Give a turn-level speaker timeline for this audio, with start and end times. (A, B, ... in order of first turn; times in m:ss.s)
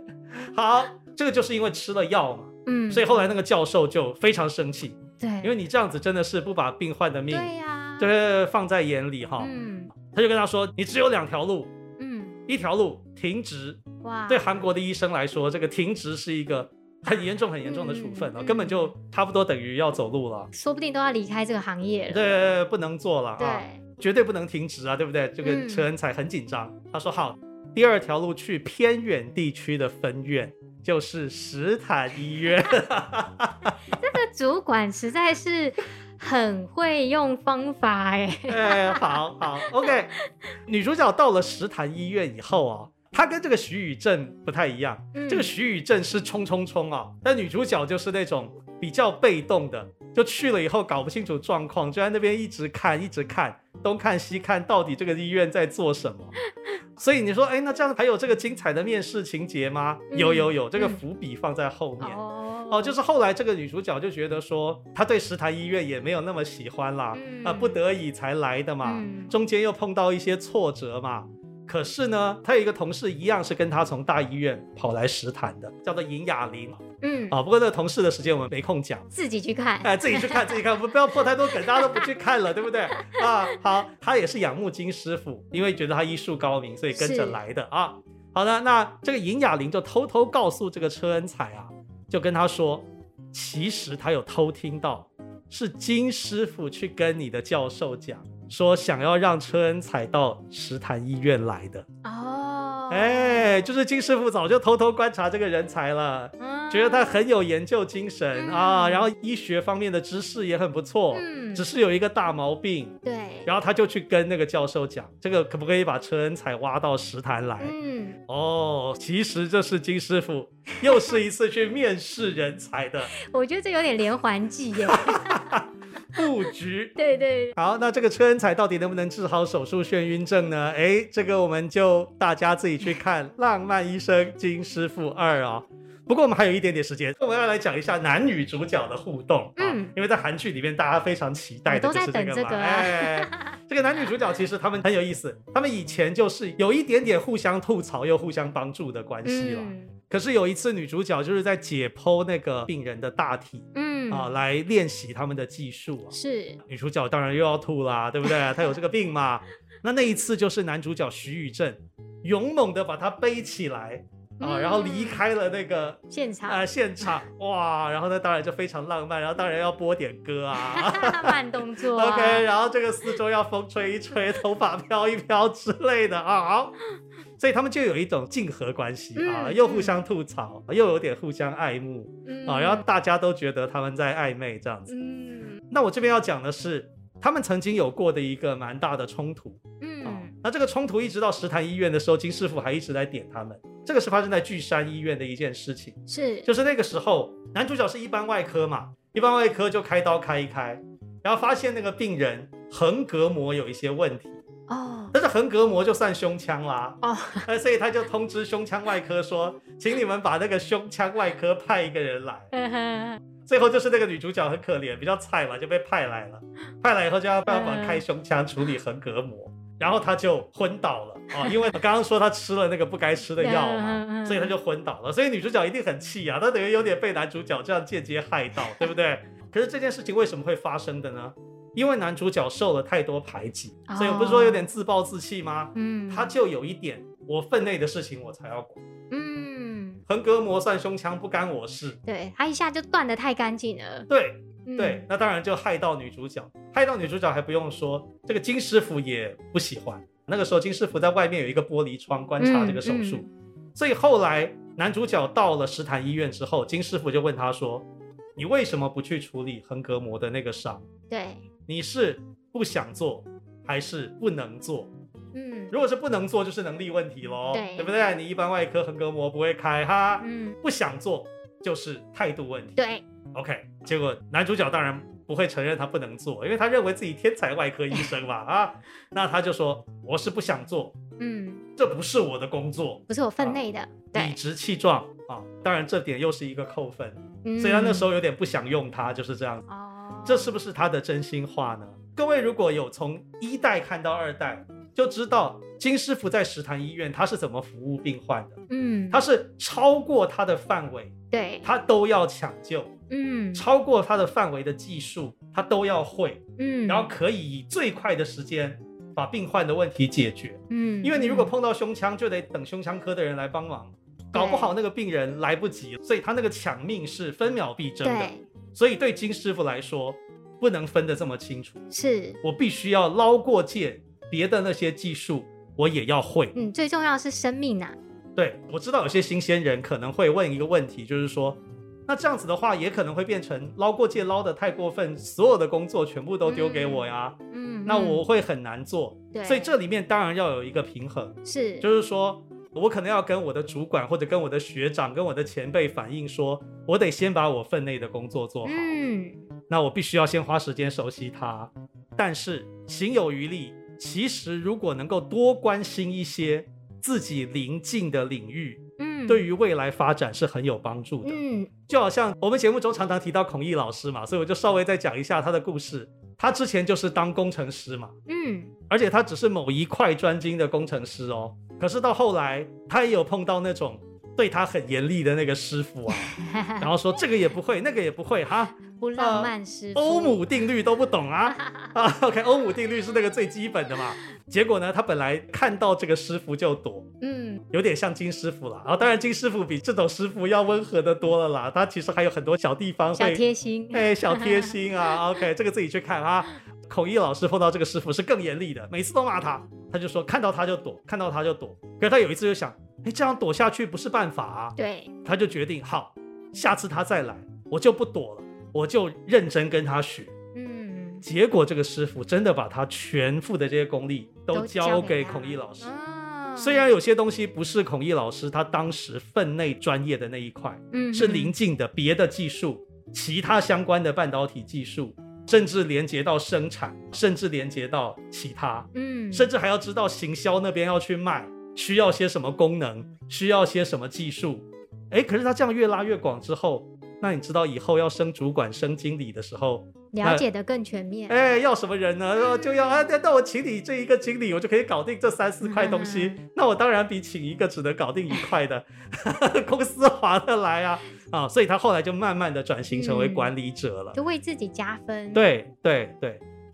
0:00.5-0:11.7 A
0:02.6-0:03.1 B
0:05.2-0:05.6 B
0:07.3-0:08.1 B
0:09.4-0:09.9 B
0:12.0-0:12.4 B
0:12.5-0:20.5 A
0:14.0-0:14.7 B
0:17.6-0:18.9 B
0:20.5-0:22.3 B
0:22.1-0:33.7 A
0:23.4-0:23.8 B
0:25.4-0:25.9 B
0:34.0-0:39.2 B
0:38.5-0:40.1 A
0:40.6-0:56.3 A
0:45.1-0:45.5 B
0:57.0-1:02.2 A
1:00.1-1:01.0 B
1:02.0-1:03.0 B
1:02.7-1:19.0 A
1:07.1-1:07.8 B
1:08.8-1:09.3 B
1:17.0-1:17.4 B
1:19.1-1:20.6 B
1:19.8-1:41.8 A
1:21.7-1:22.0 B
1:26.9-1:27.4 B
1:42.0-1:43.7 B
1:42.9-1:52.9 A
1:46.4-1:47.2 B
1:48.3-1:49.1 B
1:51.1-1:51.6 B
1:53.0-1:53.5 B
1:53.4-1:57.7 A
1:57.6-1:58.2 B
1:58.3-2:03.1 A
2:03.1-2:05.4 B
2:04.9-2:05.6 A
2:06.1-2:06.9 A
2:07.0-2:07.6 B
2:07.6-2:36.1 A
2:19.6-2:19.9 B
2:21.6-2:23.5 B
2:29.2-2:29.9 B
2:33.7-2:34.3 B
2:36.1-2:36.6 B
2:36.7-2:51.4 A
2:38.2-2:38.6 B
2:44.4-2:45.2 B
2:46.1-2:47.0 B
2:50.7-2:52.4 B
2:51.9-2:56.8 A
2:57.4-3:04.9 A
2:59.2-3:00.0 B
3:02.2-3:02.8 B
3:04.9-3:05.6 B
3:05.7-3:24.4 A
3:09.8-3:10.3 B
3:16.1-3:16.5 B
3:24.7-3:25.1 B
3:25.1-3:32.5 A
3:27.0-3:27.4 B
3:32.5-3:33.2 B
3:33.4-3:58.8 A
3:37.5-3:38.0 B
3:43.4-3:44.5 B
3:53.9-3:54.6 B
3:55.7-3:56.3 B
3:59.1-4:00.0 B
4:00.1-4:02.0 A
4:02.0-4:04.1 B
4:04.1-4:20.9 A
4:04.6-4:05.0 B
4:12.4-4:13.2 B
4:21.1-4:21.4 B
4:21.7-4:24.9 A
4:25.3-4:25.7 B
4:25.7-4:32.8 A
4:27.5-4:27.9 B
4:30.2-4:30.6 B
4:32.8-4:33.0 B
4:33.3-4:40.9 A
4:41.2-4:41.6 B
4:41.8-4:43.6 A
4:43.1-4:44.4 B
4:44.1-4:49.6 A
4:47.4-4:48.1 B
4:49.7-4:50.5 B
4:50.2-4:58.6 A
4:58.7-4:59.2 B
4:59.1-5:02.9 A
5:01.3-5:01.7 B
5:03.1-5:03.6 B
5:03.5-5:21.8 A
5:06.6-5:07.1 B
5:10.7-5:11.5 B
5:14.3-5:14.7 B
5:18.0-5:18.5 B
5:21.9-5:22.4 B
5:22.4-5:26.5 A
5:26.5-5:28.0 B
5:28.4-5:49.0 A
5:36.4-5:38.2 B
5:39.3-5:39.7 B
5:41.4-5:41.9 B
5:48.6-5:49.4 B
5:49.7-6:08.1 A
5:59.0-5:59.5 B
6:01.2-6:01.7 B
6:08.3-6:08.7 B
6:08.9-6:27.1 A
6:16.1-6:16.9 B
6:18.9-6:20.4 B
6:21.6-6:21.9 B
6:27.2-6:27.6 B
6:27.7-6:44.7 A
6:33.1-6:34.8 B
6:44.8-6:45.1 B
6:45.2-6:50.3 A
6:50.5-6:51.2 B
6:51.2-6:55.9 A
6:54.5-6:56.9 B
6:56.6-7:20.4 A
7:00.9-7:01.5 B
7:08.9-7:09.5 B
7:20.1-7:21.5 B
7:21.3-7:34.2 A
7:25.6-7:26.4 B
7:32.9-7:33.5 B
7:34.1-7:35.5 B
7:35.3-7:36.4 A